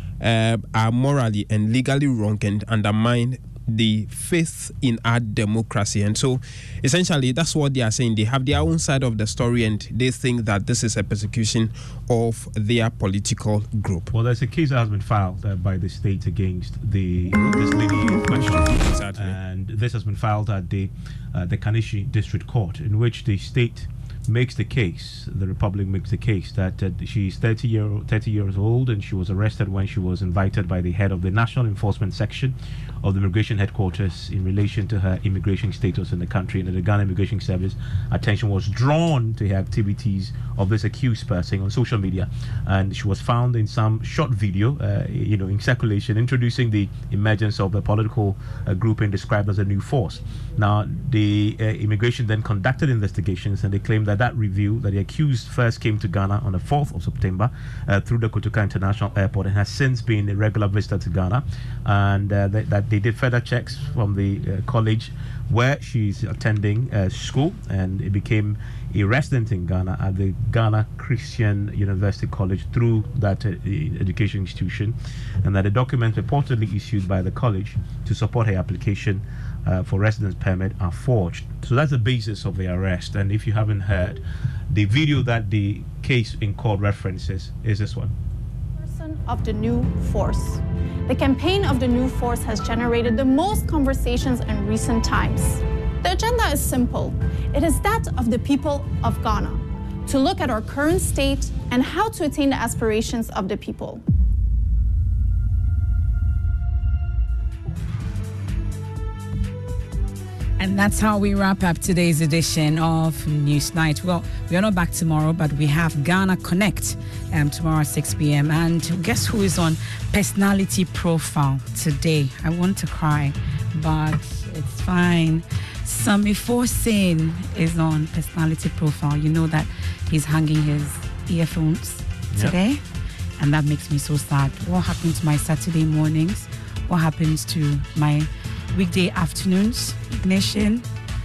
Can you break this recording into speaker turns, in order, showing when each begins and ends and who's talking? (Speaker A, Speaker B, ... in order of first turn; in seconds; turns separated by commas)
Speaker A: 0.2-14.1, Speaker B: 14.1-84.2, Speaker A: 18.3-19.4, Speaker B: 84.7-88.1, Speaker C: 88.8-104.0, Speaker D: 110.6-132.8, Speaker D: 133.4-140.8